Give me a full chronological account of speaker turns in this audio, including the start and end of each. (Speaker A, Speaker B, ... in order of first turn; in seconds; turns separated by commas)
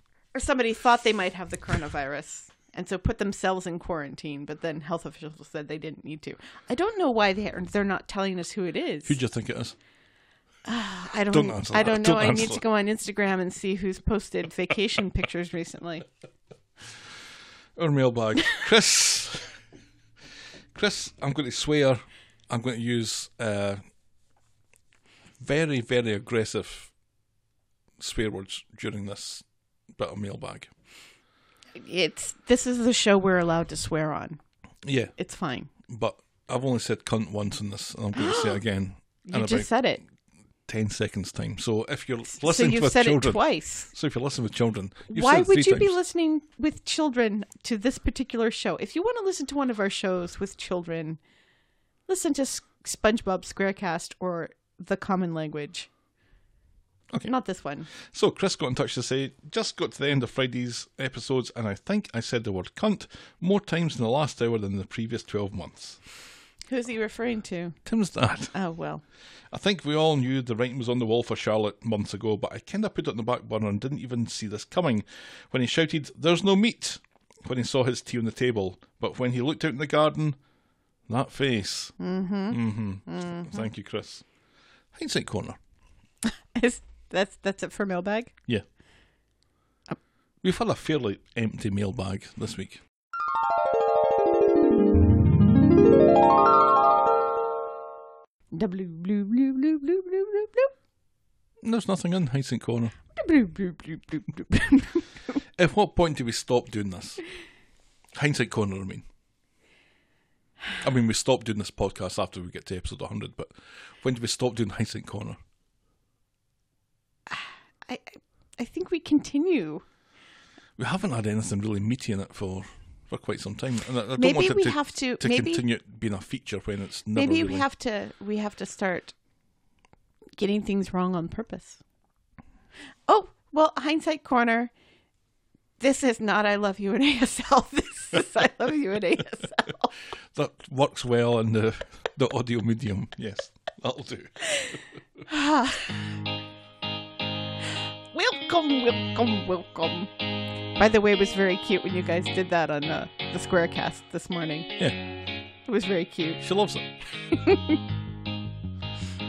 Speaker A: 0.3-9.2, Speaker B: 9.1-9.8, Speaker A: 10.7-16.1, Speaker B: 11.3-12.6, Speaker B: 17.8-19.6, Speaker B: 20.7-23.8, Speaker B: 25.4-26.9, Speaker B: 28.0-29.4, Speaker B: 29.9-30.7, Speaker A: 31.8-34.4, Speaker B: 34.8-35.1, Speaker A: 35.2-35.7, Speaker B: 35.9-39.7, Speaker A: 38.1-38.6, Speaker A: 39.2-40.0, Speaker B: 40.7-46.0, Speaker A: 42.3-43.9, Speaker A: 45.1-51.2, Speaker A: 52.1-55.9, Speaker A: 57.2-57.9, Speaker B: 58.0-66.0, Speaker A: 66.7-67.8, Speaker B: 67.9-68.5, Speaker A: 68.5-69.0, Speaker B: 69.5-80.4, Speaker B: 81.1-82.0, Speaker A: 82.0-83.6, Speaker B: 82.5-84.2, Speaker B: 84.9-85.6, Speaker A: 86.3-88.3, Speaker B: 90.4-92.8, Speaker A: 98.5-100.7, Speaker B: 101.6-103.0, Speaker A: 103.1-105.4, Speaker B: 105.6-107.2, Speaker B: 108.2-109.1, Speaker B: 110.8-115.4, Speaker A: 117.3-119.8, Speaker B: 120.8-127.7, Speaker A: 124.2-125.6, Speaker A: 127.1-129.1, Speaker A: 130.4-131.8, Speaker A: 133.1-134.7, Speaker A: 135.8-139.9, Speaker B: 140.3-144.8, Speaker A: 145.3-146.2, Speaker A: 148.1-150.1, Speaker A: 150.8-154.8, Speaker A: 155.7-156.4, Speaker B: 156.4-156.9, Speaker A: 157.3-157.8